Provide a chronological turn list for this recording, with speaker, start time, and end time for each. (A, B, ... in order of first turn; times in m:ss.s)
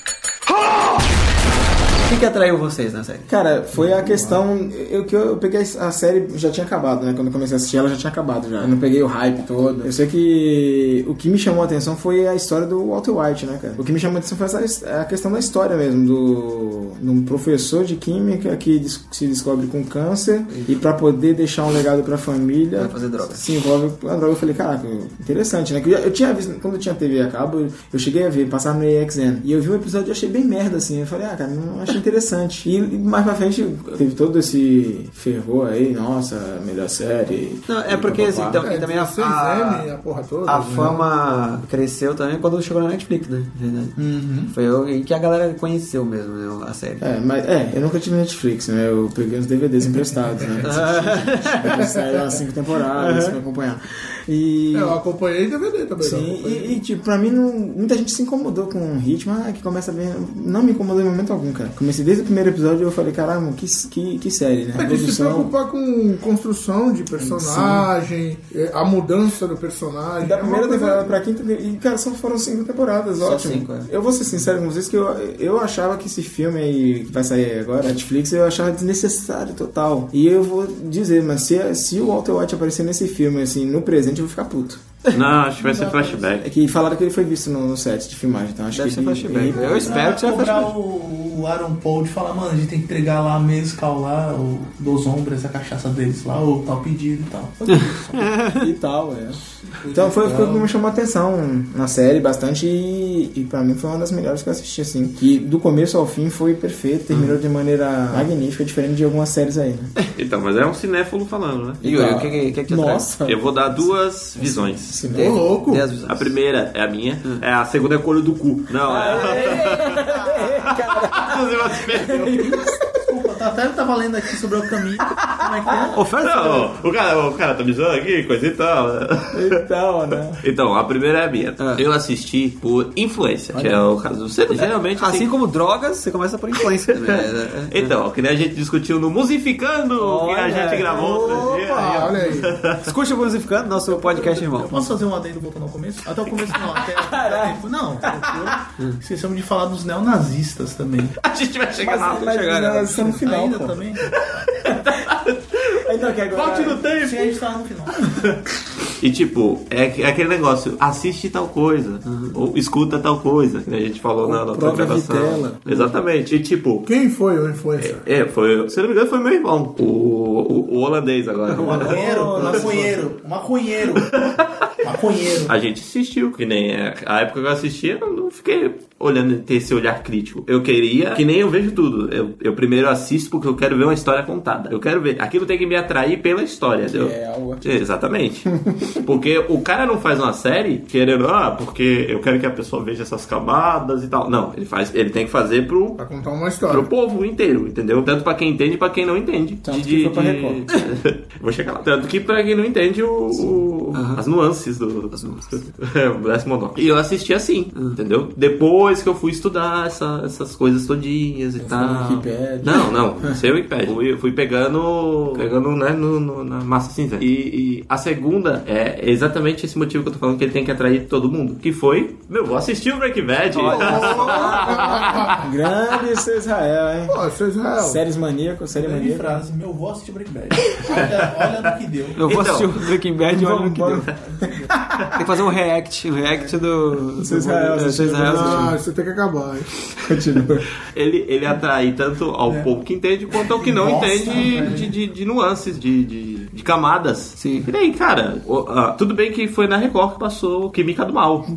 0:02.0-0:03.3 A
0:03.3-0:38.7 B
0:20.5-0:20.8 A
0:22.8-0:23.4 A
0:37.7-0:39.9 A
0:38.5-0:41.1 C
0:40.4-0:47.0 A
0:44.0-0:44.5 D
0:47.0-0:55.0 B
0:50.6-0:51.9 A
0:51.8-0:52.2 C
0:52.9-0:53.4 A
0:54.7-0:56.8 C
0:56.0-1:05.5 B
1:04.7-1:11.2 C
1:07.2-1:07.9 B
1:10.2-1:24.8 B
1:13.2-1:13.9 A
1:25.1-1:26.4 E
1:25.6-1:26.4 D
1:26.4-1:30.1 B
1:28.7-1:30.7 A
1:29.5-1:38.5 D
1:37.7-1:38.6 A
1:38.6-1:49.9 B
1:39.8-1:40.7 D
1:47.1-1:47.4 A
1:50.2-1:51.8 E
1:51.8-1:55.5 B
1:51.8-1:53.1 A
1:53.2-1:55.0 E
1:55.1-1:56.3 A
1:55.2-1:55.8 D
1:55.2-1:55.8 C
1:56.0-2:00.0 E
1:58.8-2:03.1 B
1:58.9-2:00.3 A
2:00.7-2:02.4 E
2:02.1-2:06.0 D
2:05.2-2:05.9 B
2:05.9-2:06.7 A
2:06.2-2:09.6 E
2:09.3-2:10.4 B
2:10.4-2:15.3 E
2:11.6-2:11.8 A
2:13.5-2:13.8 B
2:14.5-2:17.9 A
2:16.9-2:22.9 E
2:20.0-2:21.5 A
2:20.9-2:22.6 C
2:22.8-2:24.9 A
2:23.9-2:31.2 D
2:26.9-2:28.6 B
2:31.2-2:32.4 E
2:31.8-2:33.8 B
2:32.2-2:33.1 A
2:33.0-2:34.2 D
2:34.1-2:37.3 E
2:34.6-2:35.0 B
2:35.7-2:37.0 B
2:36.5-2:38.1 D
2:38.0-2:38.4 E
2:39.0-2:46.9 E
2:42.0-2:42.4 A
2:44.2-2:45.6 B
2:45.6-2:45.9 A
2:46.8-2:48.0 C
2:47.8-2:52.6 E
2:51.5-2:53.0 B
2:51.6-2:54.2 D
2:53.9-2:54.9 E
2:54.8-2:55.5 D
2:55.4-3:16.0 E
3:06.9-3:07.8 B
3:08.4-3:09.1 B
3:16.0-3:16.9 C
3:16.7-3:45.4 E
3:19.6-3:20.6 B
3:23.9-3:24.2 A
3:25.1-3:25.7 A
3:31.6-3:33.4 B
3:43.5-3:44.7 A
3:43.6-3:45.5 C
3:44.0-3:47.2 B
3:47.1-3:48.0 C
3:47.8-3:49.4 B
3:48.7-3:52.3 D
3:50.9-3:51.2 E
3:52.2-3:54.1 A
3:52.2-3:52.9 E
3:53.3-3:55.0 B
3:54.2-3:54.7 D
3:55.2-3:58.7 A
3:56.2-3:56.6 D
3:57.2-3:58.8 B
3:58.2-3:59.7 C
4:00.0-4:00.6 B
4:00.9-4:11.5 E
4:02.4-4:02.7 D
4:03.5-4:04.9 D
4:07.4-4:07.7 A